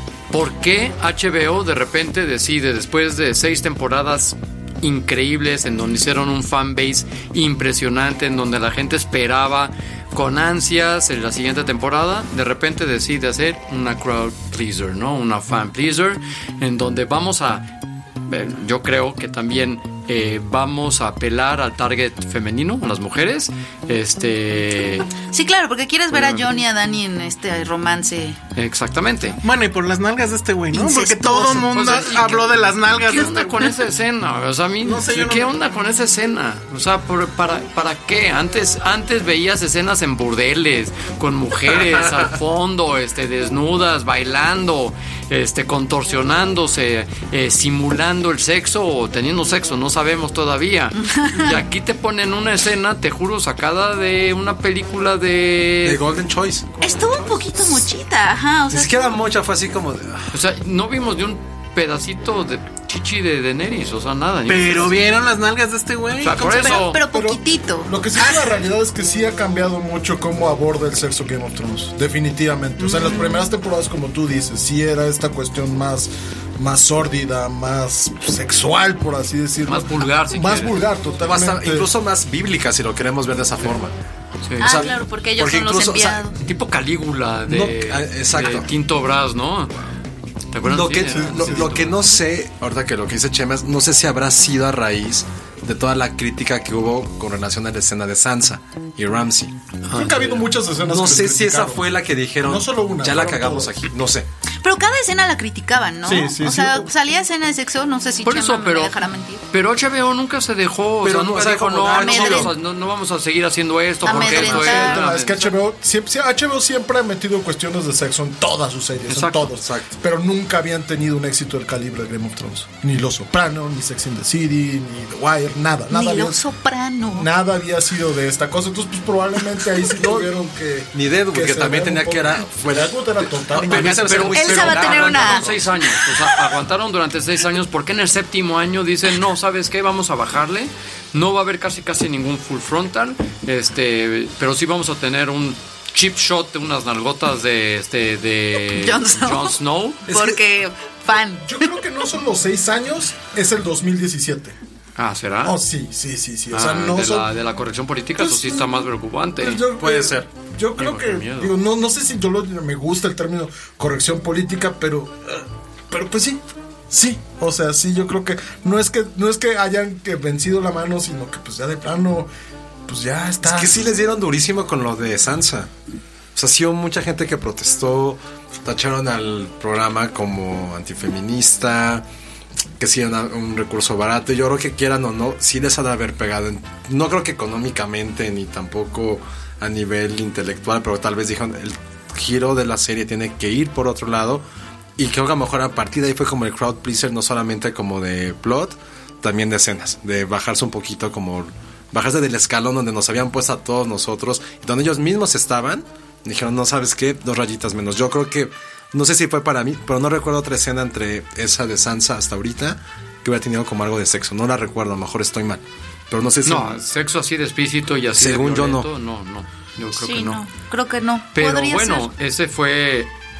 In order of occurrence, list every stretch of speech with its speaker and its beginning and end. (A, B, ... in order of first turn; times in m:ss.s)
0:00.3-0:17.7 A
0:18.2-0:25.1 A
0:25.3-0:28.4 B
0:26.1-0:26.6 A
0:28.6-0:29.4 A
0:29.4-0:33.7 C
0:30.7-0:31.7 B
0:31.7-0:56.0 A
0:34.8-0:35.6 C
0:51.0-0:51.6 B
0:55.8-0:56.7 D
0:56.7-0:57.6 A
0:56.8-0:59.1 B
0:58.7-1:00.3 D
1:00.3-1:05.0 A
1:04.5-1:06.9 C
1:06.2-1:07.0 A
1:06.4-1:08.0 B
1:07.1-1:21.9 E
1:12.8-1:13.4 C
1:19.7-1:20.9 A
1:21.2-1:23.9 D
1:24.4-1:24.7 A
1:24.6-1:26.4 B
1:24.6-1:26.2 D
1:26.4-1:29.9 A
1:27.5-1:28.7 D
1:30.5-1:32.2 A
1:30.7-1:39.5 D
1:31.0-1:31.7 E
1:39.9-1:40.4 A
1:39.9-1:43.7 E
1:40.9-1:44.3 D
1:44.6-1:49.4 B
1:46.0-1:46.9 E
1:48.2-1:49.0 A
1:49.5-1:55.6 A
1:51.0-1:52.5 D
1:52.0-1:52.5 B
1:54.0-1:55.0 B
1:54.1-2:06.4 E
1:54.1-1:54.6 D
1:59.1-1:59.5 A
1:59.6-1:59.9 D
2:05.9-2:07.3 B
2:07.1-2:14.3 E
2:10.0-2:10.3 D
2:10.9-2:15.6 D
2:13.7-2:30.0 A
2:14.2-2:15.9 B
2:28.7-2:31.8 B
2:30.1-2:30.4 D
2:31.4-2:34.6 E
2:35.0-2:35.6 A
2:35.4-2:37.3 E
2:36.5-2:39.6 A
2:38.2-2:38.8 E
2:39.4-2:52.3 E
2:39.8-2:40.3 D
2:40.8-2:41.5 A
2:52.9-2:53.8 E
2:53.4-2:55.7 D
2:56.3-3:02.0 D
3:02.8-3:14.4 D
3:15.0-3:36.8 D
3:36.4-3:40.4 A
3:38.2-3:38.9 D
3:40.0-3:42.1 B
3:41.3-3:43.1 A